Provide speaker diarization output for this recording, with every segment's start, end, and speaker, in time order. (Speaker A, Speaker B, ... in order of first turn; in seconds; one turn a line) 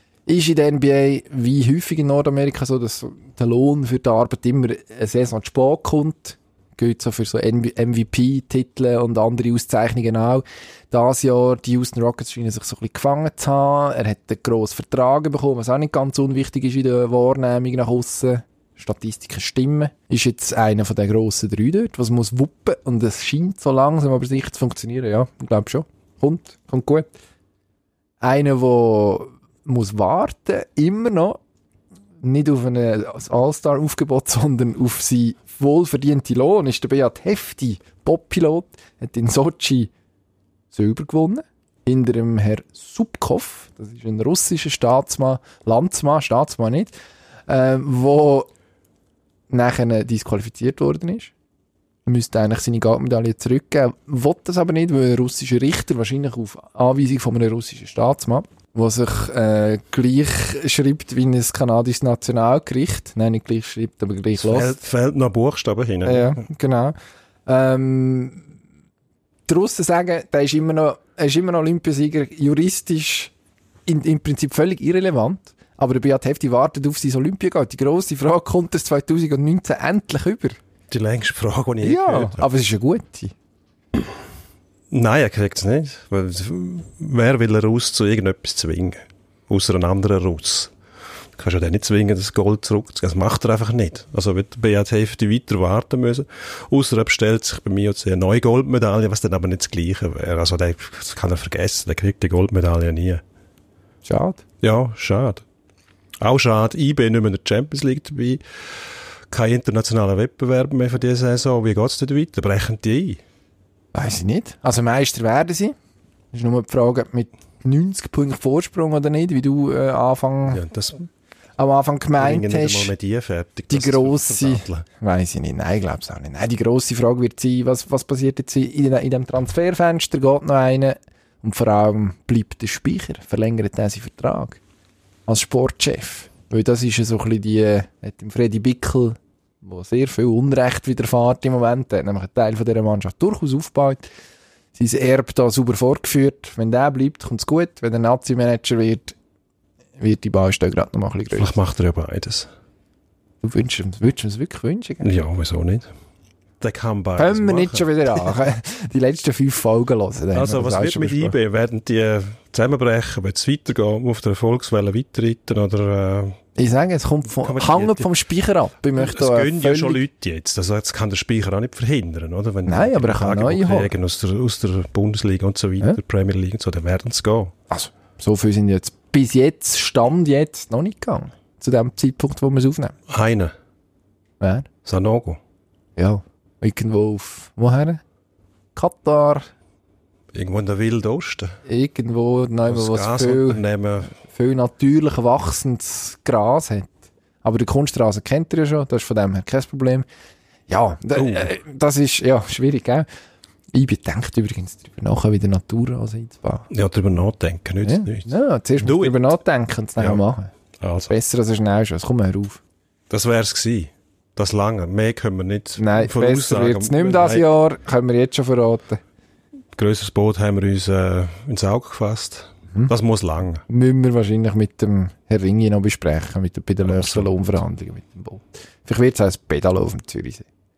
Speaker A: 0.3-27.1
Speaker A: 28.2-31.4
Speaker A: 32.2-39.9
Speaker A: 40.7-46.9
Speaker A: 47.5-48.5
Speaker A: 49.5-51.3
Speaker A: 52.1-64.8
Speaker B: 64.3-66.4
Speaker A: 66.0-67.0
Speaker A: 67.5-68.4
Speaker A: 69.5-73.3
Speaker A: 73.9-80.6
Speaker B: 80.9-82.5
Speaker A: 81.8-83.3
Speaker B: 84.9-90.7
Speaker B: 91.4-103.2
Speaker A: 104.0-104.4
Speaker B: 104.6-105.4
Speaker B: 106.2-108.4
Speaker B: 109.3-113.2
Speaker A: 113.9-115.8
Speaker A: 116.3-120.6
Speaker B: 120.5-121.1
Speaker A: 121.6-122.9
Speaker B: 122.2-124.9
Speaker A: 123.7-134.6
Speaker A: 135.3-144.1
Speaker A: 144.8-149.2
Speaker A: 150.0-151.5
Speaker B: 151.3-152.5
Speaker A: 153.4-155.1
Speaker B: 155.0-155.9
Speaker B: 156.6-158.3
Speaker A: 157.2-161.4
Speaker B: 160.3-166.4
Speaker A: 166.6-170.0
Speaker B: 167.4-168.1
Speaker B: 168.9-177.5
Speaker A: 172.7-173.9
Speaker A: 177.7-182.9
Speaker B: 183.1-183.6
Speaker A: 184.4-184.7
Speaker B: 184.8-185.4
Speaker A: 186.0-188.0
Speaker A: 188.8-189.5
Speaker B: 190.3-191.6
Speaker A: 191.7-193.6
Speaker B: 192.7-194.1
Speaker A: 194.2-200.1
Speaker A: 200.7-203.1
Speaker B: 201.1-201.5
Speaker A: 203.7-206.7
Speaker B: 206.7-209.4
Speaker A: 207.8-210.5
Speaker B: 210.8-211.1
Speaker A: 211.1-212.6
Speaker B: 213.1-217.5
Speaker A: 215.8-219.0
Speaker B: 219.8-223.6
Speaker A: 223.7-230.4
Speaker B: 226.8-227.3